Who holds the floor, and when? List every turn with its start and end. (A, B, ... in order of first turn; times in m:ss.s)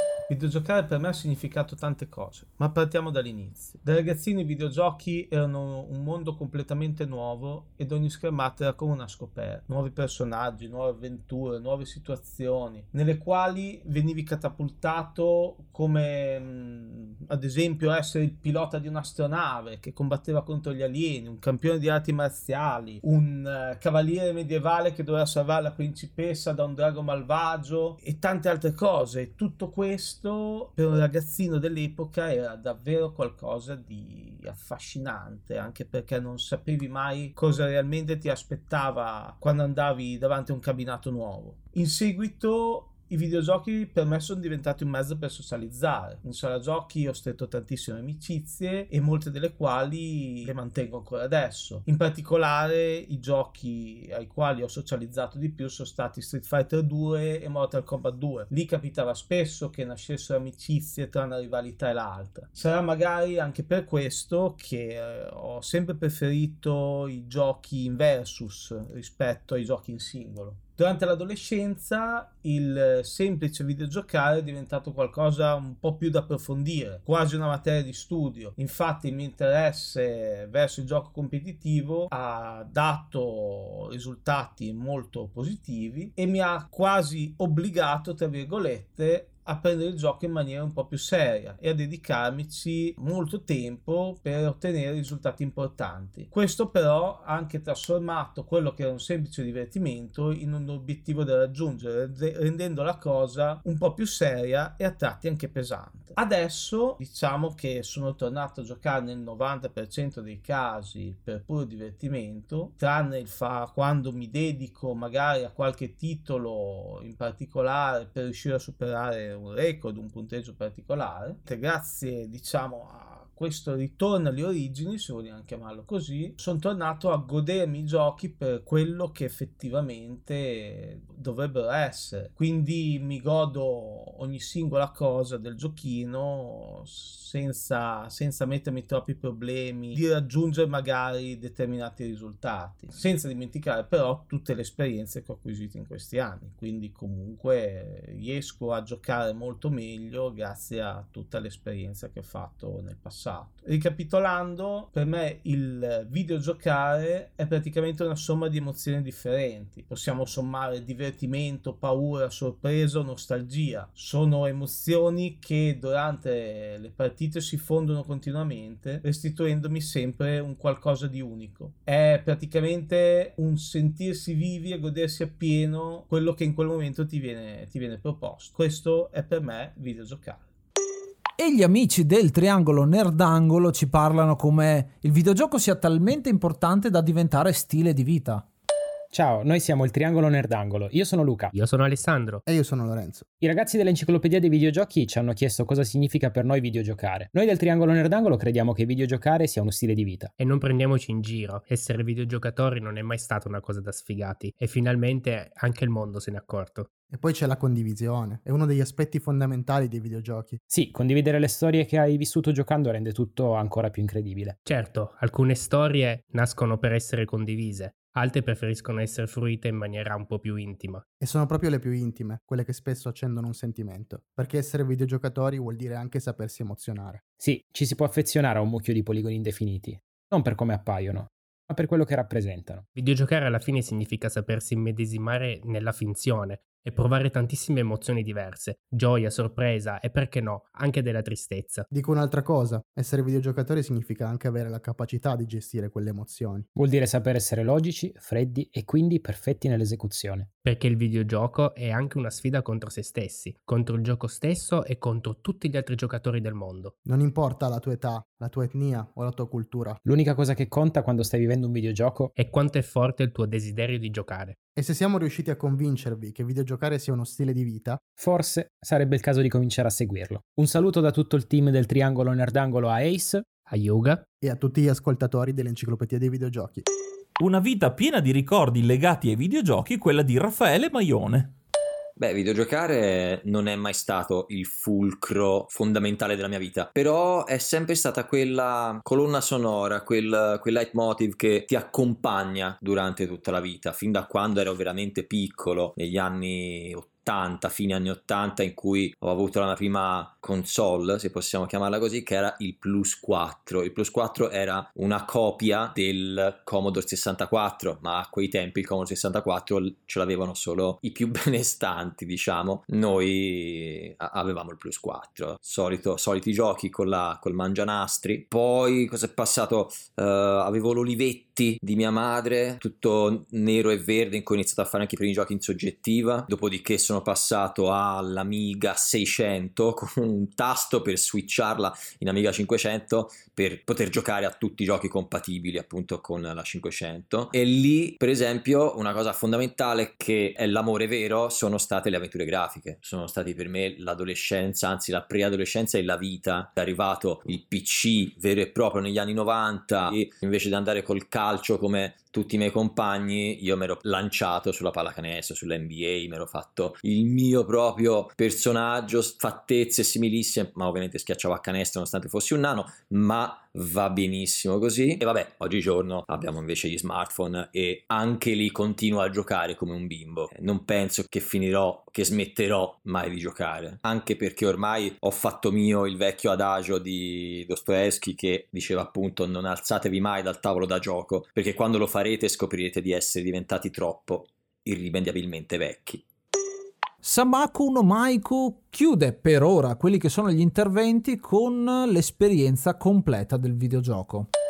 0:00.3-3:00.4 A
3:01.4-3:08.4 B
3:09.1-3:11.5 C
3:11.5-3:12.4 D
3:12.5-3:13.3 E
3:13.4-3:20.3 C
3:20.4-3:26.9 D
3:27.1-3:30.6 E
3:30.7-3:34.5 C
3:34.6-3:41.0 D
3:41.2-3:47.2 E
3:47.4-3:52.8 C
3:53.0-4:01.8 D
4:01.9-4:06.6 E
4:06.8-4:10.5 C
4:10.6-4:16.9 D
4:17.1-4:20.0 E
4:20.1-4:22.3 C
4:22.4-4:24.6 D
4:24.7-4:28.0 E
4:28.2-4:33.4 C
4:33.7-4:34.2 D
4:34.4-4:36.8 E
4:37.4-4:41.5 F
4:42.2-6:26.2 G
6:27.2-6:34.5 B